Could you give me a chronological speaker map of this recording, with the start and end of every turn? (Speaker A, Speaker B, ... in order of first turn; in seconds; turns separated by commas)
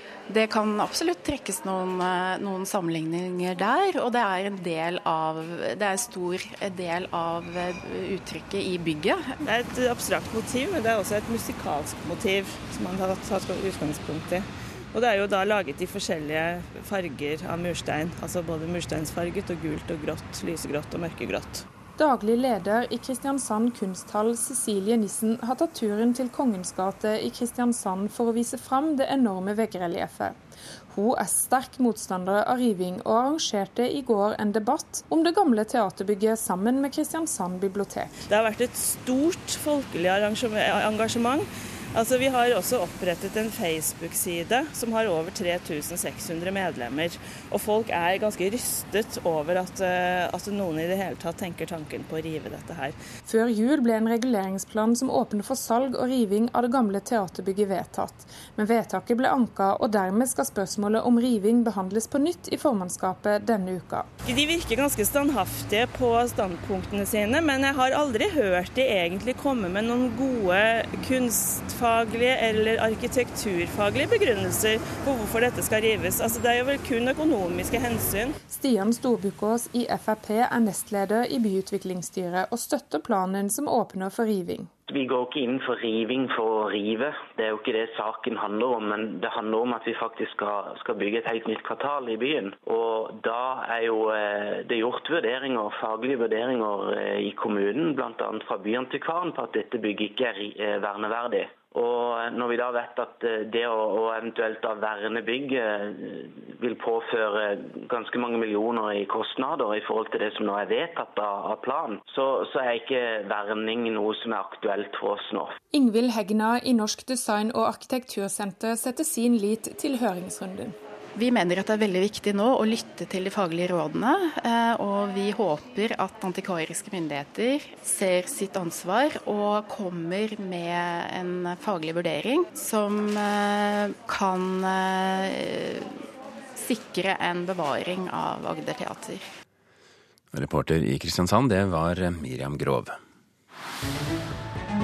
Speaker A: 0.3-9.3, Speaker B: 9.4-21.6, Speaker C: 22.0-30.4, Speaker C: 30.9-38.2, Speaker B: 38.3-53.0, Speaker C: 53.3-64.1, Speaker B: 64.2-78.4, Speaker C: 78.5-84.7, Speaker D: 84.9-115.6, Speaker C: 115.7-120.8, Speaker A: 121.2-135.9, Speaker A: 136.6-139.2, Speaker E: 140.3-143.0